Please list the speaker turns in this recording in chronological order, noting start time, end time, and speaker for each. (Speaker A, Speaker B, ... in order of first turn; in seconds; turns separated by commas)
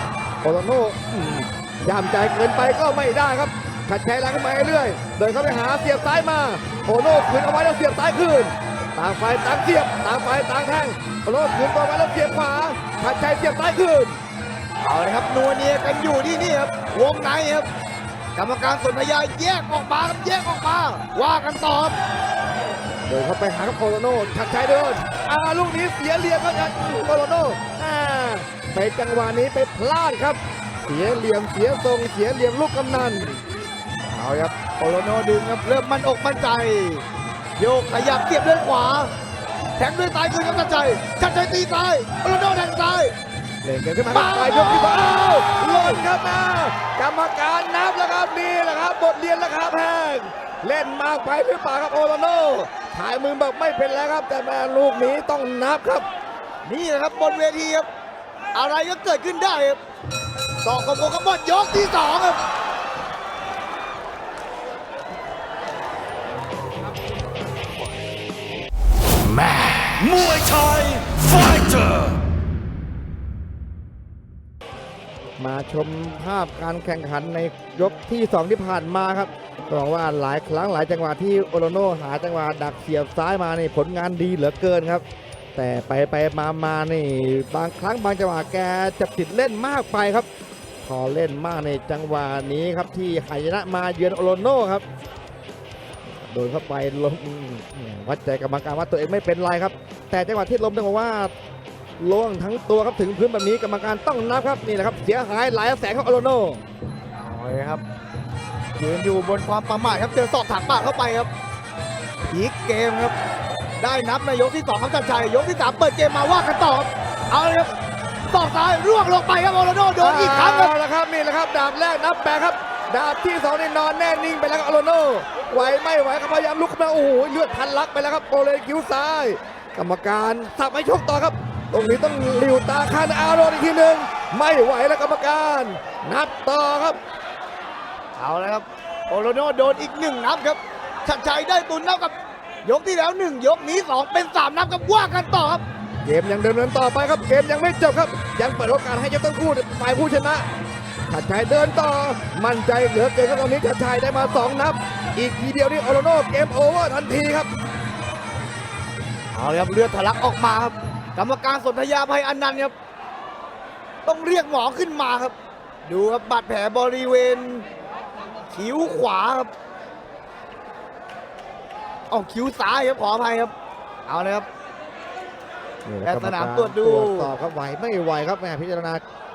Speaker A: 0.4-14.2, Speaker B: 14.8-17.7, Speaker B: 18.4-21.9, Speaker A: 23.1-33.4, Speaker B: 34.1-37.0, Speaker B: 37.6-39.1, Speaker B: 39.8-43.1, Speaker A: 43.6-56.1, Speaker B: 44.1-46.0, Speaker B: 56.6-57.9, Speaker B: 58.5-59.8, Speaker B: 60.6-62.4, Speaker C: 69.3-72.2, Speaker A: 75.4-85.0, Speaker A: 85.5-90.3, Speaker A: 90.8-94.8, Speaker A: 96.1-101.3, Speaker A: 102.0-106.6, Speaker B: 107.2-107.8, Speaker B: 108.8-111.3, Speaker B: 112.3-113.2, Speaker B: 113.8-117.7, Speaker B: 118.3-120.7, Speaker A: 120.0-137.0, Speaker B: 138.2-145.6, Speaker A: 146.0-150.5, Speaker A: 151.1-157.5, Speaker B: 159.3-162.7, Speaker B: 164.1-167.7, Speaker B: 168.5-169.5, Speaker B: 172.1-173.5, Speaker B: 174.1-174.5, Speaker A: 175.8-179.0, Speaker B: 176.0-177.3